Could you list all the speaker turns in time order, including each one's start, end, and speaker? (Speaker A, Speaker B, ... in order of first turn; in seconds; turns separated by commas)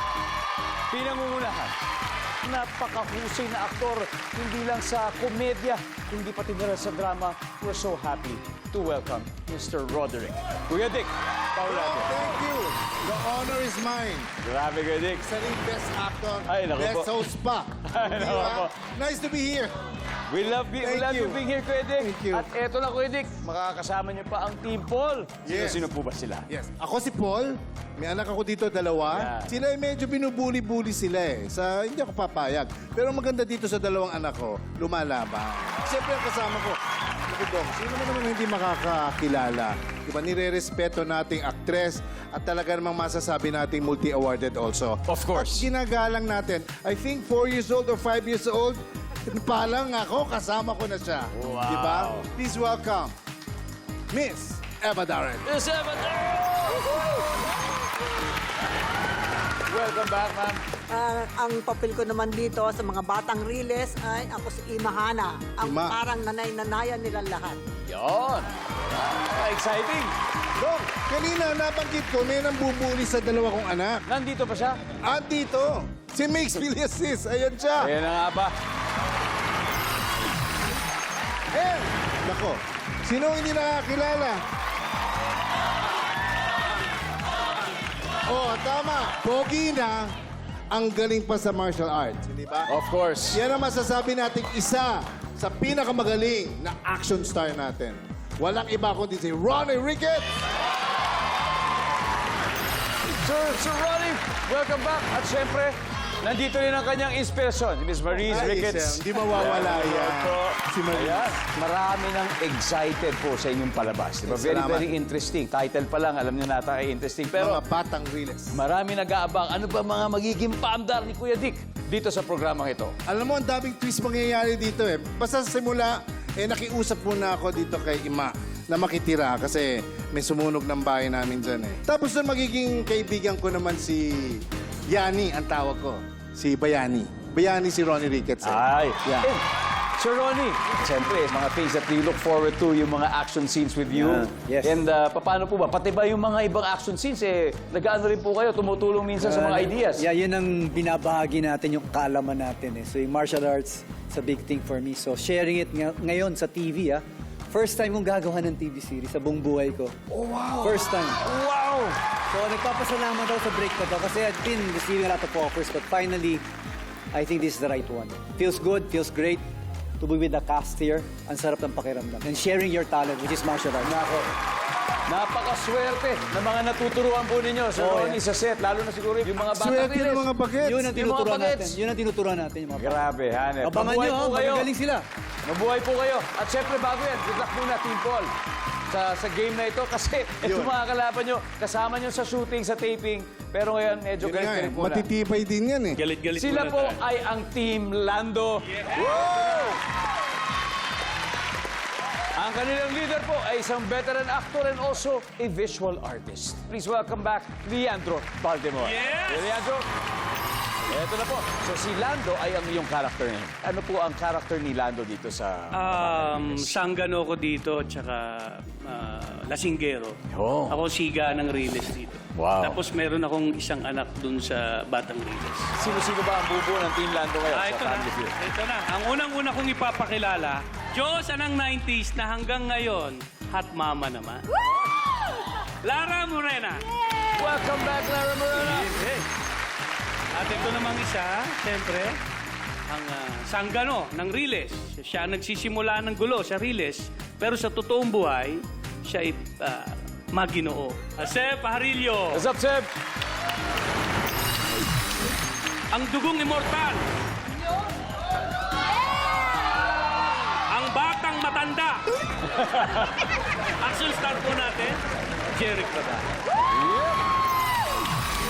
Speaker A: 0.9-1.8, Speaker A: 2.4-12.1, Speaker B: 11.6-14.3, Speaker A: 14.4-15.2, Speaker B: 15.2-19.7, Speaker A: 16.5-17.1, Speaker A: 17.9-18.7, Speaker A: 20.3-26.5, Speaker B: 20.8-21.4, Speaker B: 22.0-22.5, Speaker B: 25.4-25.9, Speaker B: 26.5-53.1, Speaker A: 29.1-29.6, Speaker A: 45.1-45.7, Speaker A: 51.3-52.3, Speaker B: 54.1-55.5, Speaker A: 55.5-57.4, Speaker A: 59.7-60.6, Speaker C: 61.0-65.5, Speaker B: 65.6-66.0, Speaker C: 66.1-67.6, Speaker A: 67.9-70.1, Speaker B: 70.6-74.0, Speaker A: 74.1-74.8, Speaker B: 75.0-77.9, Speaker A: 77.8-78.5, Speaker B: 81.5-84.4, Speaker B: 88.3-90.1, Speaker B: 90.7-92.7, Speaker A: 92.7-93.4, Speaker B: 93.3-100.3, Speaker A: 103.2-117.6, Speaker B: 108.2-111.4, Speaker B: 114.2-114.9, Speaker B: 117.3-118.6, Speaker A: 118.5-122.9, Speaker B: 123.1-138.6, Speaker A: 138.4-139.4, Speaker A: 140.0-150.1, Speaker D: 143.9-144.8, Speaker D: 149.2-159.9, Speaker A: 160.1-162.0, Speaker D: 160.6-161.2, Speaker D: 162.3-166.4, Speaker D: 167.1-169.4, Speaker D: 170.0-173.9, Speaker A: 173.8-174.3, Speaker A: 175.1-180.3, Speaker D: 177.8-178.2, Speaker B: 179.5-180.9, Speaker D: 180.6-183.0, Speaker A: 180.9-181.8, Speaker A: 182.8-184.7, Speaker D: 183.6-185.1, Speaker A: 185.4-188.3, Speaker A: 188.9-195.1, Speaker B: 190.4-190.7, Speaker B: 194.2-196.0, Speaker E: 195.9-197.0, Speaker A: 196.4-199.8, Speaker B: 198.9-199.8, Speaker A: 202.3-209.8, Speaker E: 208.8-209.6, Speaker A: 210.9-216.8, Speaker E: 215.7-220.2, Speaker A: 220.3-220.8, Speaker E: 220.7-225.7, Speaker A: 222.3-222.8, Speaker A: 225.8-228.3, Speaker E: 227.5-234.6, Speaker E: 235.8-236.9, Speaker A: 237.3-239.0, Speaker E: 238.6-239.2, Speaker E: 240.3-242.2, Speaker E: 242.9-252.4, Speaker A: 252.3-252.9, Speaker E: 255.9-257.1, Speaker E: 260.7-262.1, Speaker A: 262.5-263.2, Speaker E: 263.8-265.0, Speaker E: 265.5-266.3, Speaker A: 266.7-267.2